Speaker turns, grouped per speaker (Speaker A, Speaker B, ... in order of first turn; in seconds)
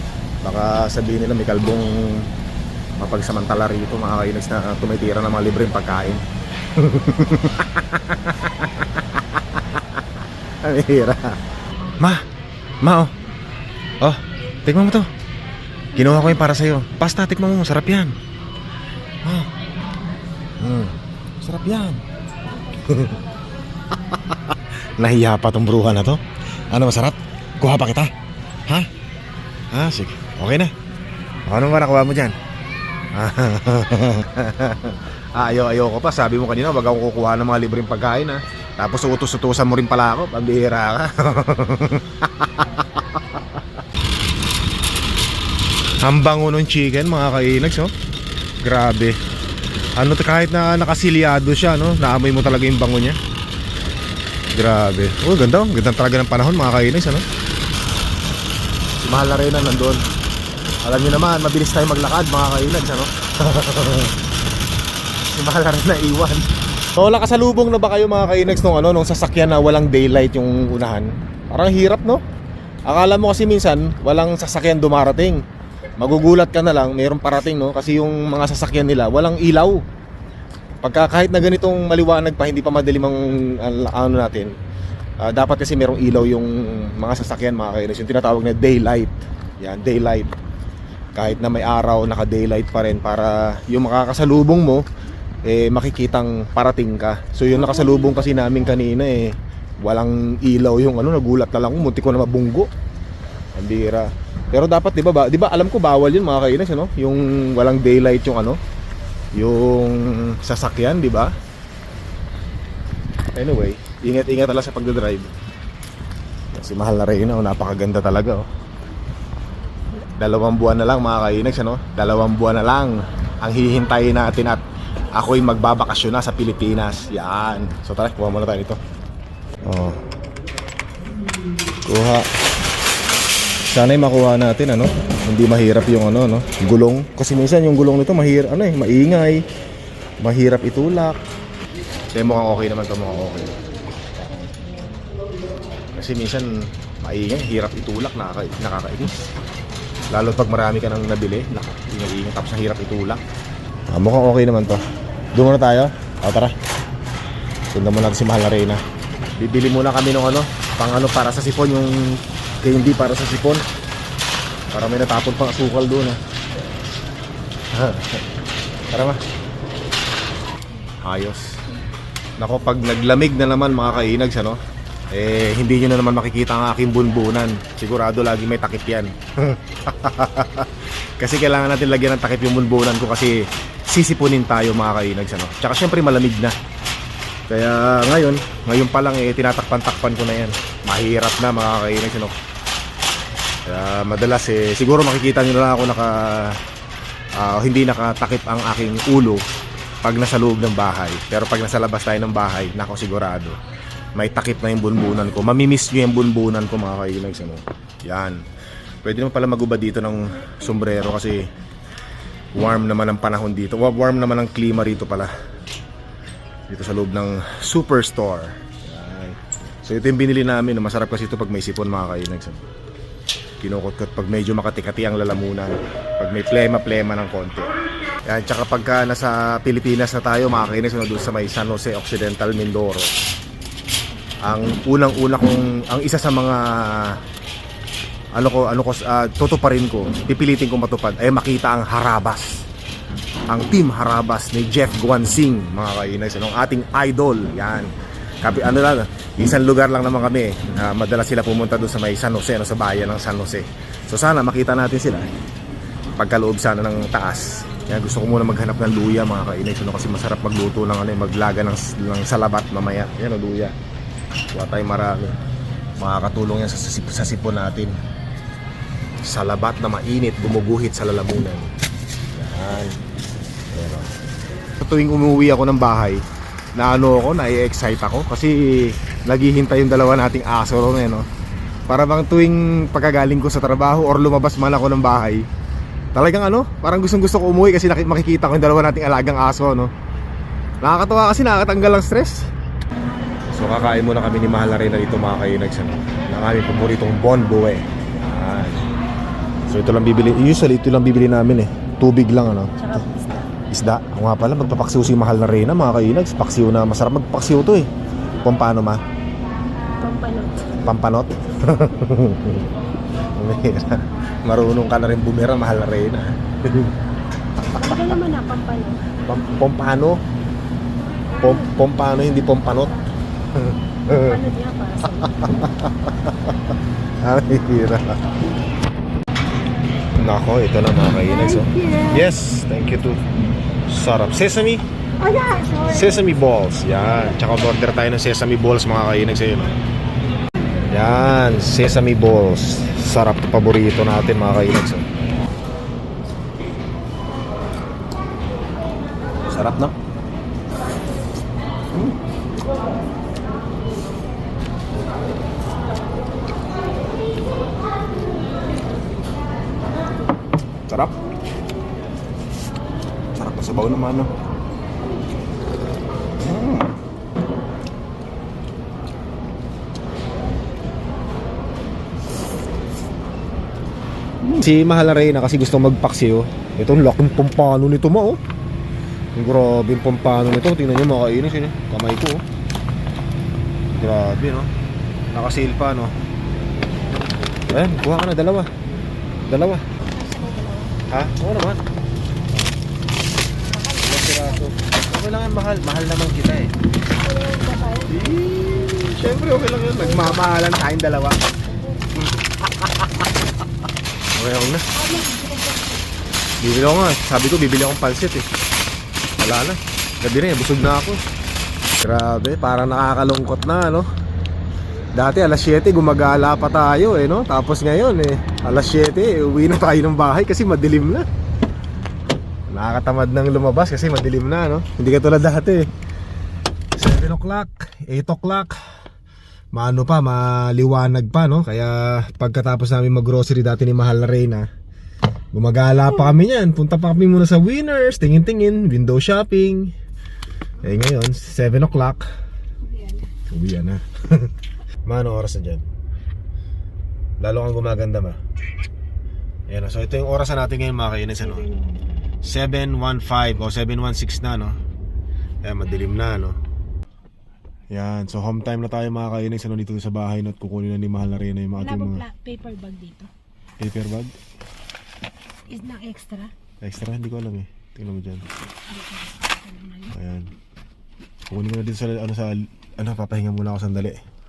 Speaker A: 0.4-2.3, 3.0-6.2, 6.8-10.0, 10.6-11.4, 12.8-13.1, 14.0-15.1, 15.9-18.2, 19.2-19.5, 20.6-22.0, 22.8-23.2, 24.1-28.1, 29.7-30.7, 31.5-32.4, 33.1-43.4, 46.0-47.9, 48.6-49.2, 50.0-53.2, 54.5-57.2, 59.0-60.0, 60.8-64.2, 65.3-72.2, 72.9-75.4, 76.0-79.8, 80.8-84.5, 85.2-90.3, 91.2-94.9, 95.4-102.7, 103.5-108.6, 109.4-111.3, 113.3-115.3, 116.5-118.4, 120.2-128.8, 129.7-130.0, 131.8-132.3, 133.7-139.4, 140.2-141.2, 142.1-143.6, 145.9-149.1, 150.1-153.2, 153.9-156.6, 157.7-158.8, 159.4-163.6, 164.7-166.2, 167.7-168.2, 168.9-169.2, 171.0-171.6, 172.4-174.6, 175.1-186.5, 187.5-192.3, 193.7-196.6, 197.4-199.4, 200.0-203.6, 204.2-208.4, 209.0-211.4, 212.5-215.3, 216.7-222.6, 223.6-227.7, 228.2-233.1, 234.4-237.2, 238.3-242.7, 243.5-255.3, 256.2-263.7, 264.5-265.4, 266.0-267.9, 269.2-271.7, 272.3-273.0, 273.7-274.1, 274.8-276.2, 276.8-281.3, 281.9-285.5, 286.1-289.9, 290.8-292.5, 293.5-298.9, 299.7-303.0, 303.7-307.9, 308.4-309.0, 310.8-312.7, 313.4-316.9, 319.3-320.2, 321.4-323.0, 323.6-324.4, 325.2-326.6, 327.2-328.2, 330.2-333.2, 333.9-334.9, 335.8-339.7, 340.9-345.1, 349.4-349.9, 360.9-361.1, 363.4-364.3, 366.4-366.9, 374.4-378.4, 379.4-382.4, 383.9-384.7, 385.3-386.1, 387.7-388.7, 389.5-389.8, 391.1-391.8, 394.0-396.7, 398.1-401.4, 402.2-403.1, 404.3-404.8, 406.6-408.5, 409.4-411.2, 412.0-414.1, 415.2-421.3, 422.7-425.9, 427.0-428.8, 429.7-434.7, 435.5-439.9, 440.8-442.2, 443.5-444.5, 445.1-445.9, 447.4-448.4, 449.7-451.7, 452.4-454.8, 455.6-456.6, 457.9-462.2, 463.8-464.4, 466.8-468.5, 470.1-470.5, 471.5-474.2
Speaker B: 22.5-23.3, 302.8-303.5, 310.0-310.8, 317.7-319.1, 324.1-325.7, 331.2-332.3, 335.2-336.3, 390.1-391.0, 393.7-394.8, 397.2-398.4, 400.0-400.4, 401.7-402.1, 404.9-406.0, 442.8-443.3, 451.4-452.1, 461.8-463.3, 465.7-466.5, 468.9-470.2